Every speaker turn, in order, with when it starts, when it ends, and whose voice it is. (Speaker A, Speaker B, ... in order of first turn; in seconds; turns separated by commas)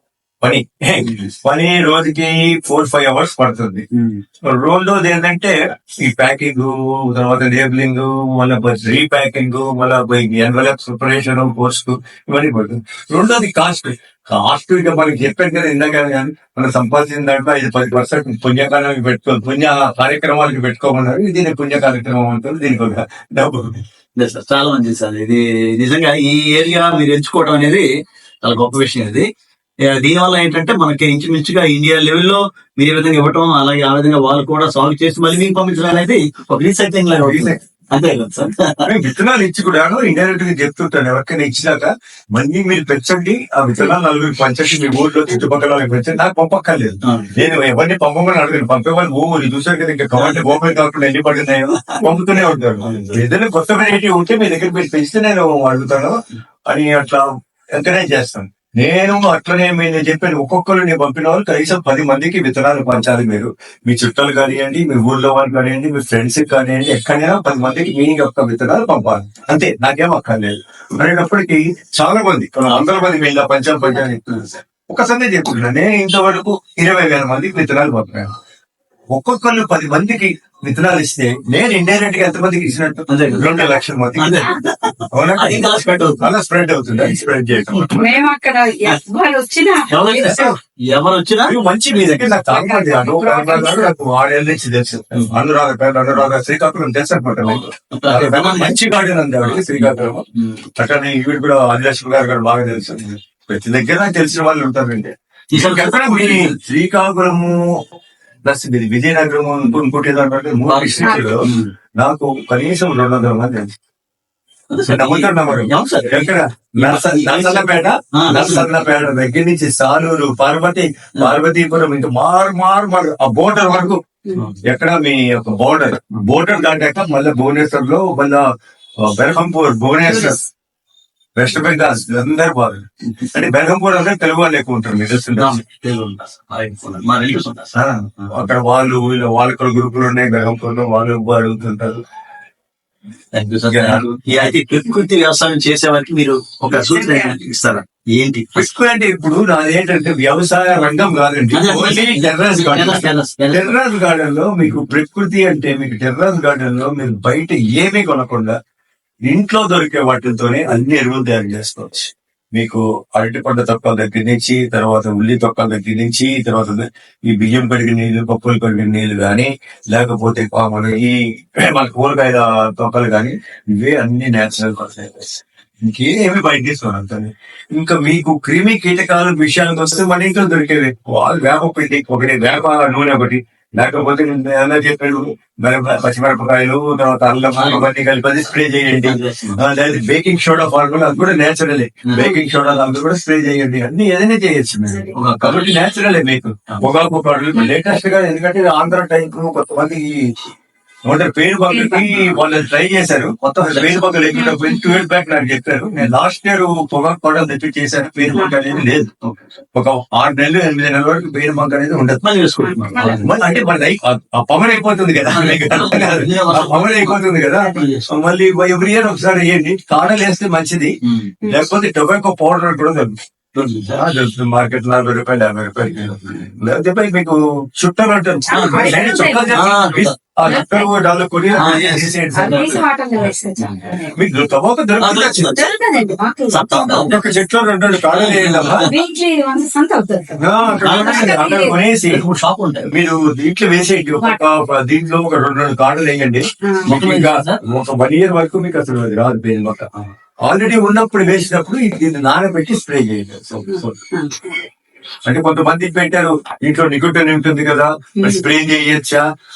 Speaker A: 0.4-3.8, Speaker A: 4.5-23.8, Speaker B: 24.2-27.9, Speaker B: 28.4-29.3, Speaker B: 29.9-38.9, Speaker A: 37.2-37.6, Speaker A: 38.8-56.1, Speaker B: 47.1-47.3, Speaker B: 50.1-50.6, Speaker B: 52.8-53.2, Speaker A: 56.7-57.2, Speaker A: 57.8-78.3, Speaker A: 79.1-84.5, Speaker B: 83.1-86.3, Speaker A: 85.1-85.7, Speaker A: 86.2-88.2, Speaker C: 87.9-90.5, Speaker B: 89.9-91.5, Speaker A: 90.3-90.5, Speaker A: 91.5-100.2, Speaker C: 92.2-93.9, Speaker B: 97.5-98.8, Speaker B: 99.4-100.7, Speaker A: 100.8-107.7, Speaker B: 105.5-106.5, Speaker A: 108.4-111.5, Speaker B: 110.7-111.7, Speaker C: 111.0-111.3, Speaker A: 112.0-113.7, Speaker B: 114.7-118.7, Speaker A: 114.9-124.0, Speaker A: 124.6-128.4, Speaker A: 129.0-130.4, Speaker A: 131.3-135.6, Speaker B: 135.4-138.4, Speaker A: 137.7-142.0, Speaker B: 143.3-148.6, Speaker A: 143.7-144.5, Speaker C: 146.7-147.3, Speaker A: 148.6-158.5, Speaker B: 151.5-153.7, Speaker A: 159.2-200.2, Speaker B: 187.5-187.9, Speaker B: 189.0-189.6, Speaker B: 192.1-192.4, Speaker B: 195.1-195.8, Speaker A: 201.1-209.1, Speaker C: 201.7-202.1, Speaker B: 203.6-204.2, Speaker C: 204.3-205.0, Speaker C: 208.3-208.8, Speaker A: 209.7-212.2, Speaker B: 212.2-213.3, Speaker C: 212.6-213.3, Speaker A: 213.2-220.9, Speaker B: 215.3-218.1, Speaker B: 221.1-221.3, Speaker A: 221.4-223.1, Speaker B: 223.5-224.0, Speaker A: 223.9-232.8, Speaker B: 225.9-226.4, Speaker C: 228.5-229.6, Speaker B: 228.5-230.7, Speaker C: 230.4-231.6, Speaker B: 231.6-234.0, Speaker C: 232.3-234.1, Speaker A: 234.1-235.5, Speaker B: 235.0-235.7, Speaker C: 235.5-237.1, Speaker B: 236.5-237.1, Speaker A: 237.0-238.9, Speaker B: 238.1-238.9, Speaker C: 238.7-241.8, Speaker A: 240.4-242.2, Speaker B: 240.8-242.9, Speaker A: 242.8-249.9, Speaker C: 246.6-246.9, Speaker B: 246.8-247.6, Speaker A: 250.4-253.9, Speaker C: 253.7-254.4, Speaker A: 255.2-259.2, Speaker C: 258.2-258.4